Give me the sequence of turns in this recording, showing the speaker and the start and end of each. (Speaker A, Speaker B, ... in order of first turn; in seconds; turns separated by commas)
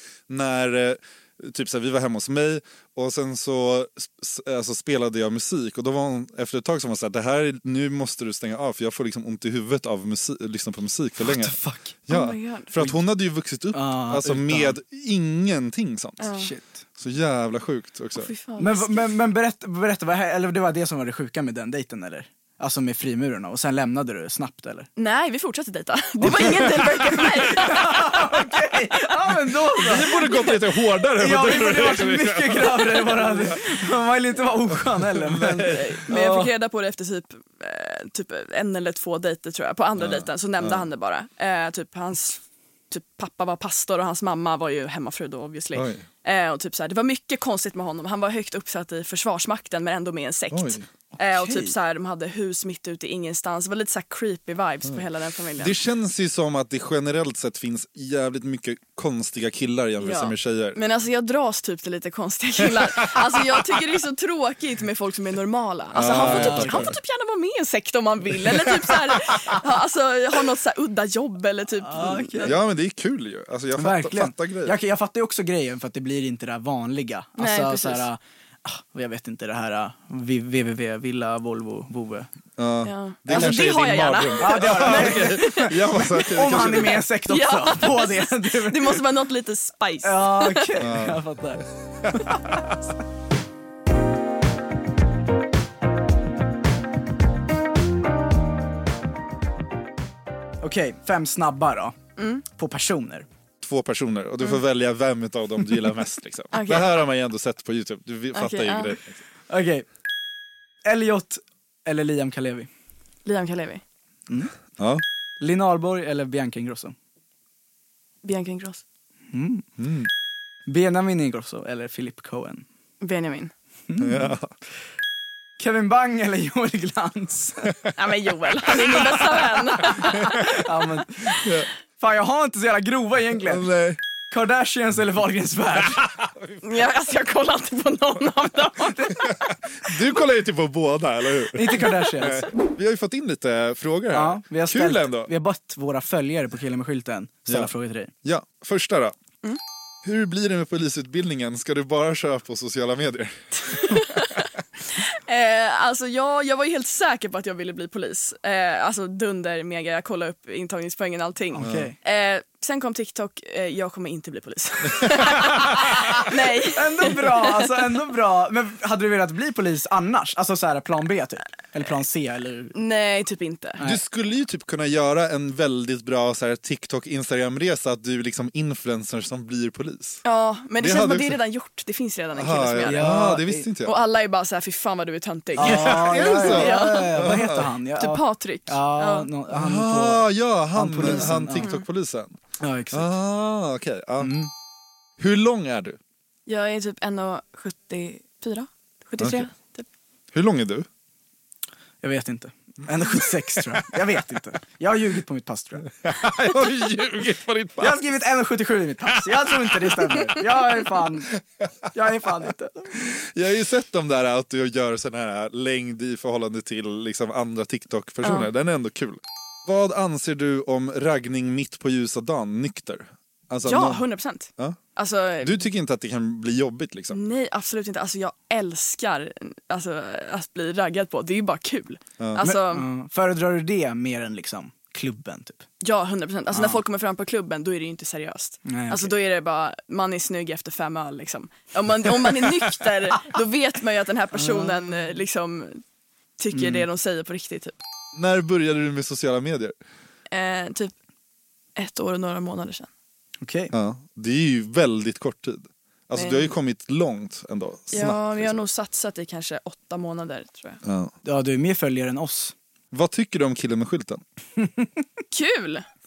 Speaker A: 0.3-16.3, Speaker B: 11.2-11.9, Speaker C: 12.1-12.7, Speaker B: 13.7-14.7, Speaker C: 16.2-16.5, Speaker B: 16.3-16.8, Speaker A: 17.0-18.3, Speaker C: 18.2-19.2, Speaker B: 18.6-24.9, Speaker C: 24.9-28.5, Speaker B: 26.2-30.3, Speaker A: 29.8-33.6, Speaker C: 30.1-30.5, Speaker B: 31.2-36.5, Speaker A: 35.1-36.0, Speaker C: 35.7-55.8, Speaker A: 40.0-40.8, Speaker A: 45.7-46.0, Speaker A: 50.5-50.8, Speaker B: 51.2-51.7, Speaker A: 55.6-60.8, Speaker C: 60.0-72.5, Speaker A: 65.9-66.9, Speaker B: 66.0-66.9, Speaker B: 71.8-72.6, Speaker A: 72.4-74.8, Speaker B: 73.8-82.3, Speaker C: 77.4-78.1, Speaker A: 82.6-87.1, Speaker C: 82.8-86.0, Speaker B: 83.3-83.9, Speaker B: 84.4-89.0, Speaker C: 86.5-90.7, Speaker B: 90.0-91.6, Speaker A: 90.8-91.2, Speaker B: 100.6-102.0, Speaker C: 102.2-102.4, Speaker B: 102.5-103.3, Speaker A: 103.6-109.2, Speaker C: 106.5-106.9, Speaker C: 108.3-109.0, Speaker B: 109.5-109.8, Speaker B: 110.8-112.7, Speaker C: 113.2-113.8, Speaker B: 115.4-116.9, Speaker C: 118.2-118.8, Speaker B: 119.3-119.7, Speaker A: 119.8-120.1, Speaker B: 120.7-122.6, Speaker C: 123.0-123.5, Speaker B: 123.9-124.3, Speaker A: 124.0-124.5, Speaker B: 125.6-127.8, Speaker C: 128.0-130.5, Speaker B: 130.3-131.5, Speaker A: 131.4-131.7, Speaker B: 132.0-133.7, Speaker A: 133.5-134.0, Speaker B: 134.3-136.1, Speaker C: 136.6-139.3, Speaker A: 139.8-145.3, Speaker B: 141.5-142.5, Speaker B: 144.1-148.1, Speaker A: 148.2-149.1, Speaker A: 150.0-154.0, Speaker C: 153.7-154.4, Speaker C: 155.0-167.5, Speaker B: 161.5-162.0, Speaker A: 161.6-161.9, Speaker B: 166.7-172.7, Speaker C: 172.7-173.8, Speaker A: 173.8-180.2, Speaker C: 180.2-183.1, Speaker A: 180.8-181.4, Speaker A: 182.3-183.9, Speaker B: 182.8-183.7, Speaker C: 183.8-187.1, Speaker B: 185.6-190.2, Speaker A: 185.6-187.7, Speaker C: 187.9-189.3, Speaker A: 189.5-192.4, Speaker B: 190.7-191.7, Speaker B: 192.6-193.1, Speaker A: 192.9-194.4, Speaker B: 194.2-194.5, Speaker A: 195.2-196.0, Speaker C: 196.5-199.8, Speaker A: 200.3-200.8, Speaker B: 202.0-205.9, Speaker A: 206.0-208.0, Speaker B: 207.8-211.4, Speaker A: 209.5-210.3, Speaker B: 211.9-212.9, Speaker A: 213.2-224.0, Speaker C: 218.2-218.5, Speaker C: 223.6-225.6, Speaker A: 225.4-227.2, Speaker C: 227.1-232.9, Speaker B: 232.4-235.6, Speaker C: 235.8-245.8, Speaker B: 236.5-236.8, Speaker B: 238.7-239.1, Speaker B: 244.3-244.8, Speaker C: 246.4-247.7, Speaker B: 246.5-246.9, Speaker A: 248.2-249.7, Speaker C: 250.3-250.9, Speaker C: 251.8-252.9, Speaker B: 253.4-253.7, Speaker A: 253.7-258.6, Speaker C: 256.1-256.5, Speaker C: 257.9-260.8, Speaker A: 260.8-261.1, Speaker B: 261.2-262.5, Speaker A: 262.9-264.2, Speaker B: 264.6-265.0, Speaker C: 265.3-265.9